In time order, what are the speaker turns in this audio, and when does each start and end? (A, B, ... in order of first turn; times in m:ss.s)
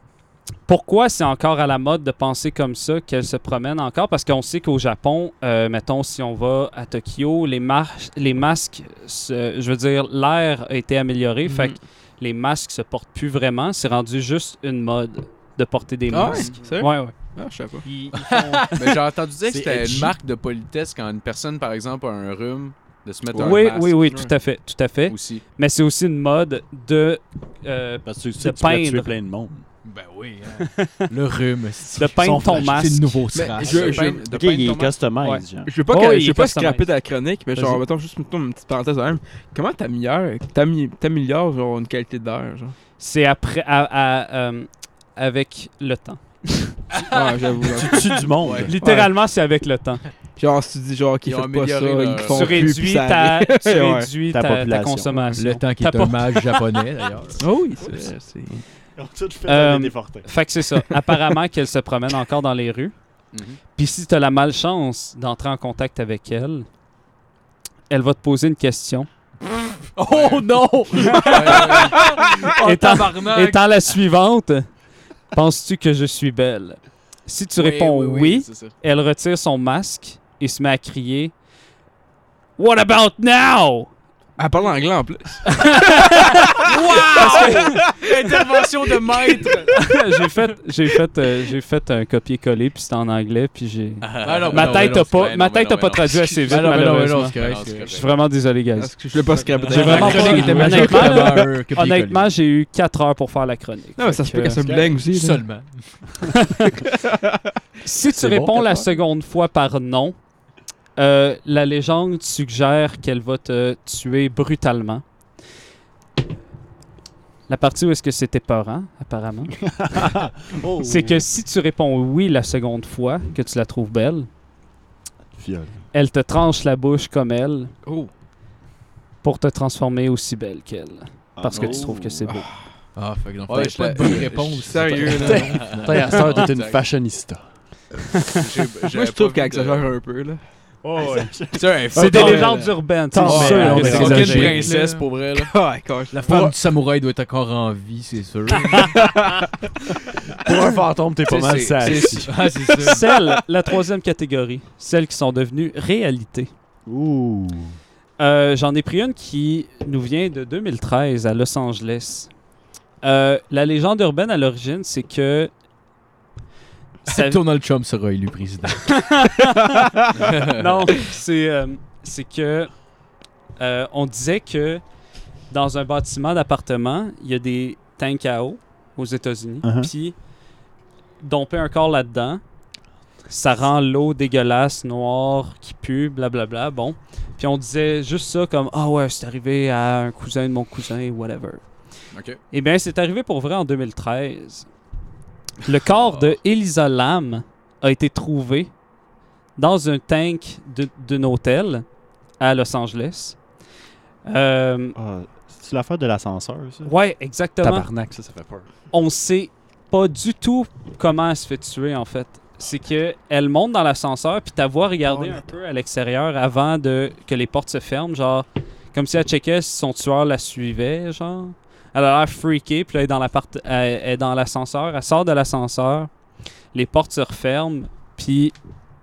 0:00.7-0:17.2 A
0:11.4-0:11.8 B
0:16.1-0:17.8 B
0:17.9-0:18.8 C
0:18.2-0:18.7 D
0:18.8-0:24.0 E
0:19.4-0:20.2 C
0:23.4-0:29.1 A
0:24.1-0:24.3 B
0:25.1-0:25.4 E
0:28.0-0:29.6 C
0:29.8-0:34.1 D
0:30.6-0:31.0 A
0:32.0-0:33.2 A
0:32.0-0:33.0 C
0:33.3-0:34.3 B
0:33.6-0:34.9 E
0:33.7-0:35.7 C
0:35.2-0:36.9 A
0:35.6-0:42.8 B
0:43.0-0:47.0 A
0:47.0-0:48.1 B
0:47.8-0:49.1 C
0:48.4-0:48.7 E
0:48.7-0:50.0 A
0:50.4-0:54.1 B
0:51.2-0:52.8 E
0:52.3-0:56.4 A
0:54.3-0:55.3 C
0:55.4-0:58.0 D
0:57.4-0:58.6 B
0:59.0-1:00.3 C
0:59.5-1:03.0 A
1:03.3-1:03.6 E
1:03.8-1:06.7 A
1:07.9-1:09.1 A
1:10.0-1:13.6 D
1:10.1-1:10.4 E
1:11.1-1:11.9 A
1:11.2-1:12.1 E
1:12.4-1:14.7 A
1:15.3-1:21.3 A
1:17.6-1:18.7 E
1:17.8-1:18.2 D
1:22.6-1:23.9 A
1:24.4-1:25.6 B
1:25.5-1:27.8 A
1:26.6-1:28.1 B
1:26.7-1:29.7 E
1:29.3-1:29.7 B
1:29.7-1:39.0 A
1:34.0-1:38.2 E
1:34.2-1:35.1 D
1:36.5-1:37.9 D
1:38.8-1:41.3 B
1:39.6-1:42.3 D
1:39.7-1:44.6 A
1:44.0-1:45.4 B
1:44.5-1:45.0 C
1:45.1-1:46.0 D
1:46.2-1:46.8 A
1:46.9-1:47.3 B
1:47.8-1:50.2 A
1:48.1-1:48.8 C
1:51.0-1:55.0 A
1:57.5-1:59.7 A
1:59.7-2:01.2 C
2:00.8-2:04.3 A
2:05.4-2:05.8 C
2:05.9-2:07.7 A
2:07.8-2:08.1 B
2:09.2-2:12.5 A
2:11.4-2:12.0 C
2:11.5-2:12.1 E
2:12.3-2:12.5 B
2:13.0-2:16.2 D
2:13.5-2:16.8 E
2:14.6-2:15.7 B
2:15.3-2:17.4 C
2:18.3-2:19.9 E
2:18.9-2:20.4 B
2:20.8-2:24.6 C
2:21.0-2:21.3 A
2:21.5-2:22.6 E
2:21.9-2:24.6 A
2:22.1-2:22.6 D
2:23.2-2:25.0 D
2:23.3-2:25.5 E
2:25.4-2:26.4 B
2:26.1-2:29.0 D
2:26.3-2:26.5 C
2:29.0-2:29.4 B
2:30.3-2:32.3 C
2:31.3-2:32.1 E
2:31.3-2:33.1 D
2:32.8-2:36.5 A
2:36.9-2:37.8 C
2:38.2-2:42.3 A
2:43.0-2:45.5 A
2:47.1-2:47.4 A
2:47.1-2:49.0 D
2:48.8-2:52.7 A
2:50.2-2:50.7 E
2:53.6-2:54.8 A
2:55.5-3:00.2 A
2:59.6-2:59.9 C
3:01.2-3:02.4 A
3:03.3-3:11.6 A
3:12.1-3:12.4 E
3:12.5-3:14.7 A
3:15.6-3:16.4 E
3:15.6-3:18.7 A
3:19.6-3:21.8 A
3:22.4-3:23.4 A
3:24.2-3:25.0 A
3:25.0-3:26.9 C
3:26.9-3:27.9 A
3:27.6-3:28.7 C
3:28.9-3:46.1 A
3:46.7-3:48.6 A